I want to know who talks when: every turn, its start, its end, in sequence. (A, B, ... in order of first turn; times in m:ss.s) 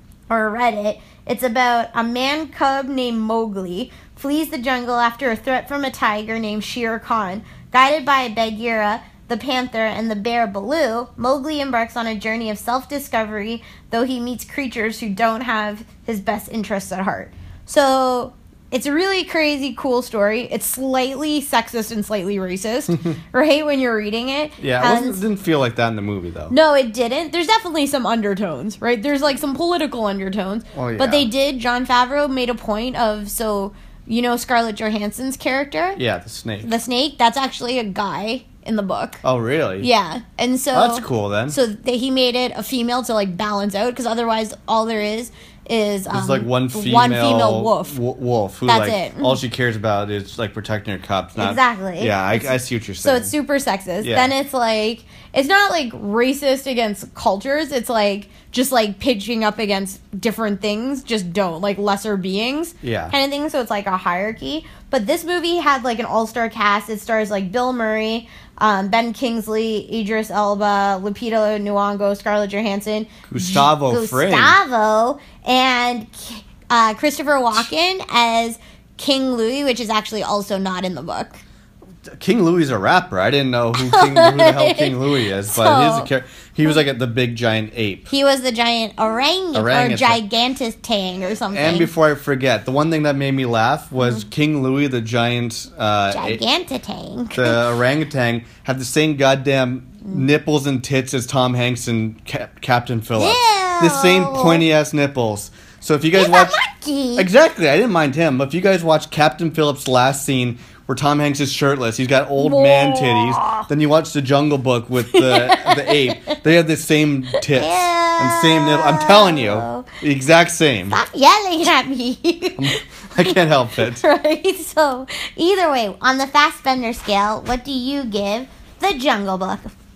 0:00.3-0:25.2 A
0:24.6-0:26.6 B
0:26.5-0:36.0 A
0:30.7-0:31.3 B
0:36.0-0:36.7 B
0:36.6-0:39.2 A
0:39.2-0:39.9 B
0:39.8-0:48.0 A
0:40.7-0:41.6 B
0:46.1-0:53.3 B
0:48.7-0:49.4 A
0:51.4-1:21.4 A
0:54.0-0:54.3 B
1:02.8-1:03.2 B
1:13.3-1:14.6 B
1:22.1-1:28.1 B
1:23.8-1:26.1 A
1:28.1-1:31.9 A
1:29.5-1:30.2 B
1:31.5-1:36.4 B
1:36.1-1:37.6 A
1:37.3-1:46.6 B
1:43.2-1:44.6 A
1:46.1-1:47.3 A
1:47.2-2:01.0 B
1:52.4-1:53.7 A
1:55.1-1:56.4 A
1:57.3-1:59.9 A
2:00.9-2:03.4 A
2:02.6-2:04.0 B
2:04.0-2:09.7 A